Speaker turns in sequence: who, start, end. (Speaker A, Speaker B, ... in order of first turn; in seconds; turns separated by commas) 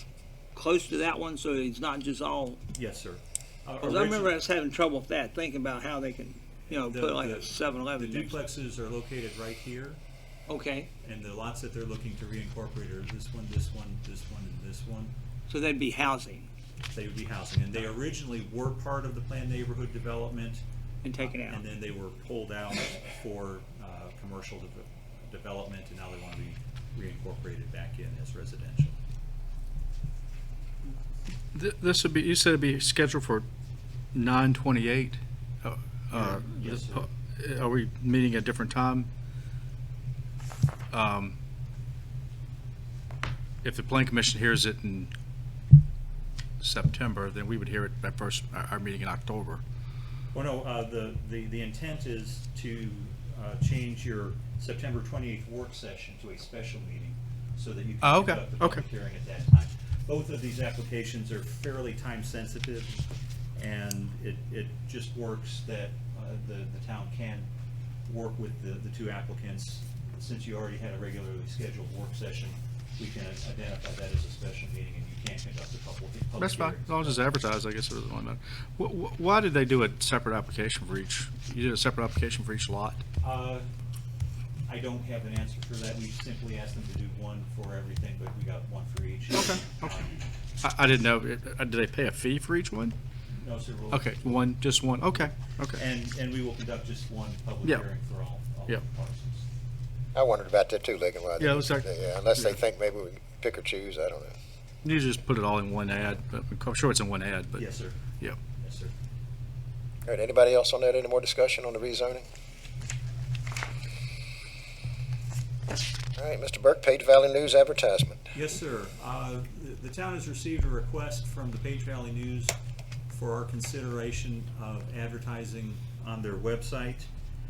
Speaker A: 0.5-2.6, Speaker B: 2.7-4.3, Speaker A: 3.8-8.4, Speaker B: 6.7-10.0, Speaker A: 10.5-10.9, Speaker B: 11.0-15.1, Speaker A: 15.5-16.5, Speaker B: 16.9-20.6, Speaker A: 21.0-21.7, Speaker B: 21.2-29.0, Speaker C: 31.5-33.5, Speaker C: 34.1-39.1, Speaker B: 36.1-37.1, Speaker C: 40.9-41.4, Speaker C: 43.6-45.1, Speaker C: 46.6-49.6, Speaker B: 50.3-67.5, Speaker C: 58.0-58.9, Speaker B: 68.1-77.4, Speaker C: 76.4-83.0, Speaker B: 83.2-83.7, Speaker B: 84.7-90.2, Speaker C: 89.3-89.9, Speaker C: 90.6-93.0, Speaker B: 93.3-99.4, Speaker C: 93.9-95.8, Speaker D: 100.1-104.3, Speaker C: 101.4-102.5, Speaker C: 104.8-108.4, Speaker B: 107.5-108.0, Speaker B: 108.6-108.9, Speaker D: 110.0-112.2, Speaker D: 116.2-118.2, Speaker B: 118.3-122.5, Speaker B: 123.1-127.1